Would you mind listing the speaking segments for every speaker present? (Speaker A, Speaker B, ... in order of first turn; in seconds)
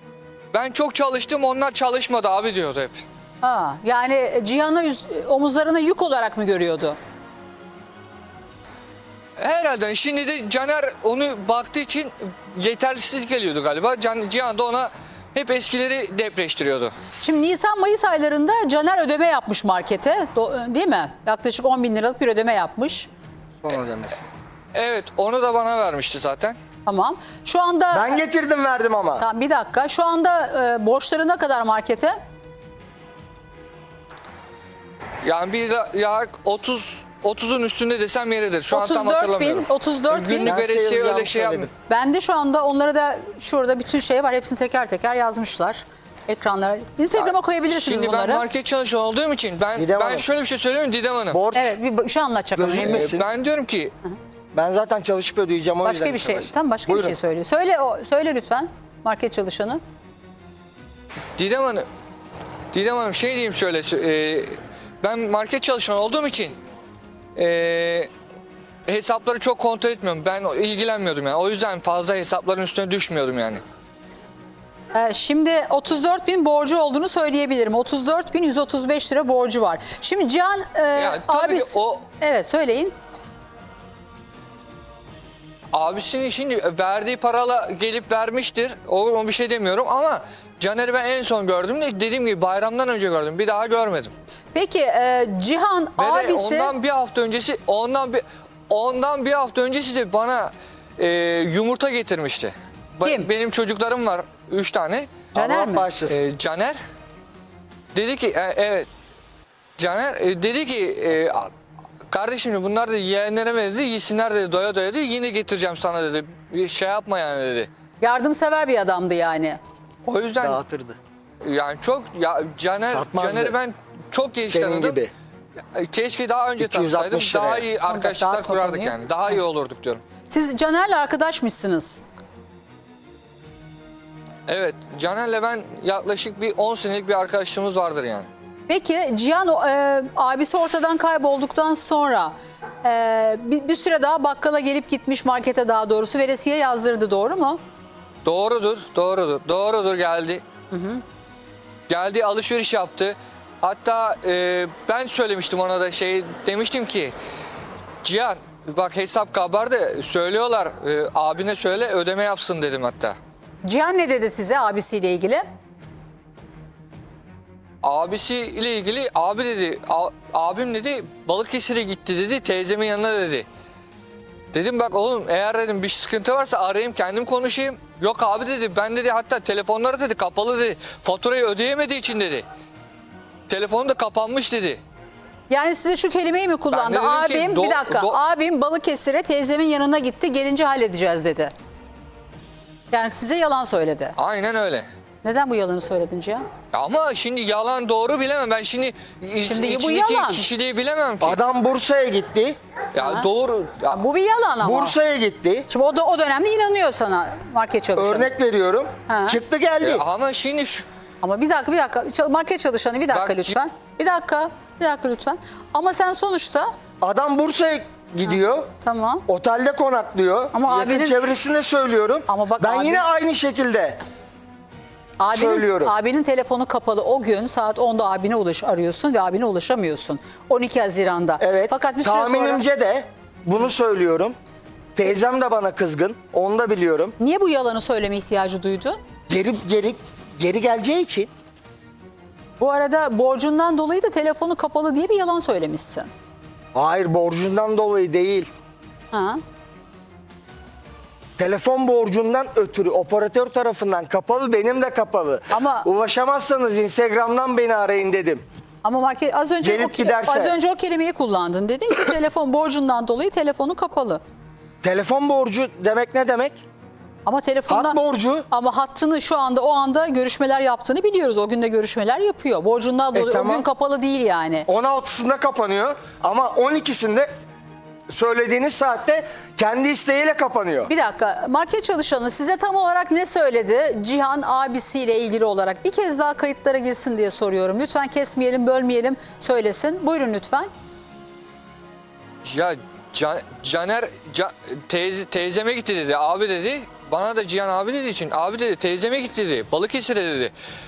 Speaker A: 0.5-3.0, 9.4-16.9, 24.7-26.6, 35.2-41.7, 47.1-51.4, 52.8-53.9, 61.4-61.8, 62.7-66.6, 67.3-68.1, 68.9-73.6, 81.0-82.1, 85.7-94.1, 96.0-105.3, 106.0-106.8, 107.9-108.9, 109.8-111.5, 112.1-117.7, 120.0-120.6, 121.4-125.0, 125.7-130.0, 134.5-138.3, 148.2-150.4, 151.9-157.1, 158.0-163.2, 167.8-173.4, 174.5-182.4, 183.5-184.8, 186.7-188.2, 194.2-194.8, 196.7-201.4, 202.9-204.0, 209.8-210.8, 213.1-213.6, 292.4-300.5
Speaker B: 3.4-7.0, 17.2-23.1, 26.9-28.1, 29.2-32.1, 38.7-40.5, 41.9-48.5, 51.5-53.1, 55.8-59.8, 74.9-82.9, 94.5-96.7, 103.0-103.3, 105.3-105.8, 118.0-119.6, 127.9-129.0, 130.3-132.0, 138.7-147.6, 150.7-151.0, 163.6-165.4, 185.5-191.5, 192.9-194.2, 195.2-196.4, 199.4-200.4, 203.0-203.3, 203.9-204.9, 205.7-208.3, 209.1-209.4, 211.2-216.7, 218.8-219.2, 220.5-221.2, 222.3-223.0, 225.2-232.6, 237.2-239.0, 242.6-246.1, 249.1-249.4, 255.5-255.9, 258.8-264.2, 267.2-268.0, 268.5-274.7, 280.9-290.7
Speaker C: 23.6-24.2, 27.9-29.2, 40.4-41.7, 49.8-50.3, 51.3-51.7, 52.6-53.3, 54.5-57.2, 105.3-106.2, 120.4-121.0, 122.9-123.5, 124.5-125.1, 126.6-127.7, 201.2-202.6, 204.6-205.7, 207.9-210.0, 217.0-218.7, 219.3-224.0, 225.3-225.9, 231.4-234.3, 234.9-237.1, 239.3-241.3, 246.7-248.5, 251.4-258.4, 259.6-260.5, 264.8-266.6, 267.7-268.5, 273.1-273.7, 274.7-277.3, 278.1-280.9